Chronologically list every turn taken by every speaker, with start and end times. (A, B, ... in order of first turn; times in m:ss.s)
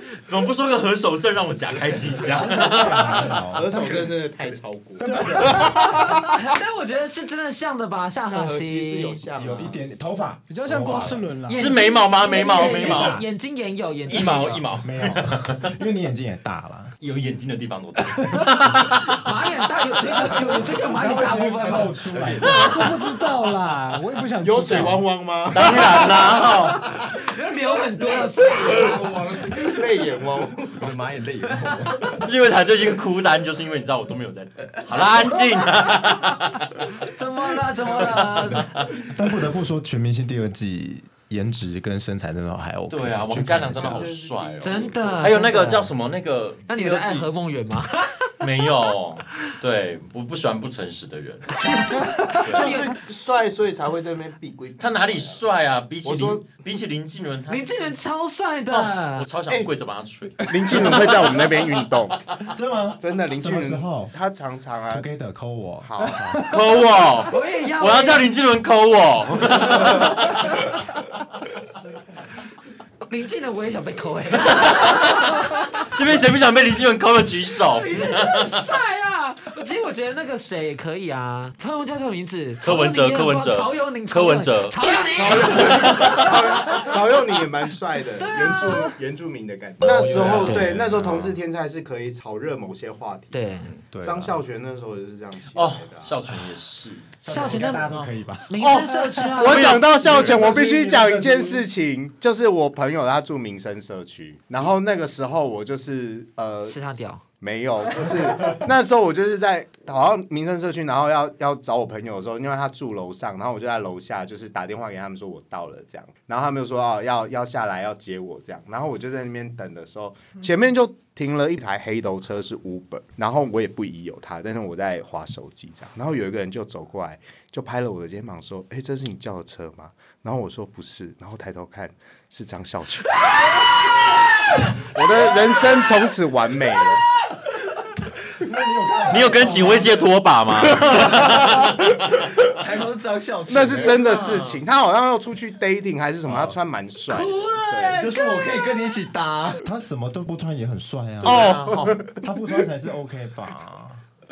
0:00.2-0:03.6 A
0:02.2-0:04.2 B
0:03.5-0:06.2 C
0:05.1-0:05.5 B
0:05.5-0:09.2 D
0:08.2-0:09.8 C
0:09.4-0:11.3 B
0:10.5-0:11.8 E
0:11.5-0:13.2 A
0:11.5-0:14.6 D
0:14.1-0:15.7 A
0:14.8-0:16.9 B
0:17.0-0:19.2 A
0:19.0-0:22.0 D
0:20.2-0:20.4 A
0:20.7-0:22.9 B
0:22.1-0:22.6 F
0:22.4-0:25.0 E
0:24.4-0:26.4 C
0:25.5-0:26.9 A
0:26.6-0:28.9 D
0:28.1-0:29.8 F
0:28.7-0:30.9 C
0:30.7-0:32.2 F
0:32.1-0:36.7 A
0:37.0-0:38.7 D
0:37.9-0:38.9 A
0:39.1-0:44.1 B
0:42.9-0:47.3 A
0:43.7-0:45.5 C
0:44.6-0:45.9 D
0:46.7-0:48.3 D
0:48.4-0:52.8 A
0:51.6-0:52.9 D
0:52.4-0:55.4 C
0:54.8-0:58.0 A
0:56.0-0:56.5 C
0:57.5-0:59.3 D
0:58.7-1:01.7 A
1:00.4-1:02.3 C
1:02.5-1:04.2 B
1:03.0-1:05.0 C
1:04.9-1:06.5 B
1:05.8-1:06.4 C
1:06.4-1:10.7 A
1:07.3-1:08.2 D
1:13.1-1:15.8 D
1:14.5-1:15.0 A
1:15.8-1:18.6 A
1:17.7-1:26.9 D
1:22.6-1:26.7 A
1:24.9-1:33.4 C
1:28.2-1:28.9 D
1:29.8-1:31.4 B
1:30.1-1:30.7 A
1:30.4-1:30.7 D
1:33.3-1:33.7 D
1:33.9-1:34.4 B
1:34.0-1:36.2 C
1:35.5-1:38.2 A
1:37.2-1:38.6 B
1:37.3-1:37.9 D
1:38.5-1:40.2 D
1:38.6-1:46.7 C
1:39.4-1:40.5 A
1:39.9-1:41.7 B
1:46.6-1:47.2 D
1:47.4-2:17.0 C
2:18.4-2:20.1 B
2:19.0-2:21.8 A
2:20.7-2:22.5 C
2:22.5-2:24.2 F
2:23.5-2:28.0 C
2:23.9-2:24.6 A
2:27.1-2:28.3 D
2:27.9-2:29.6 F
2:29.6-2:34.0 B
2:31.2-2:32.1 A
2:31.2-2:32.2 C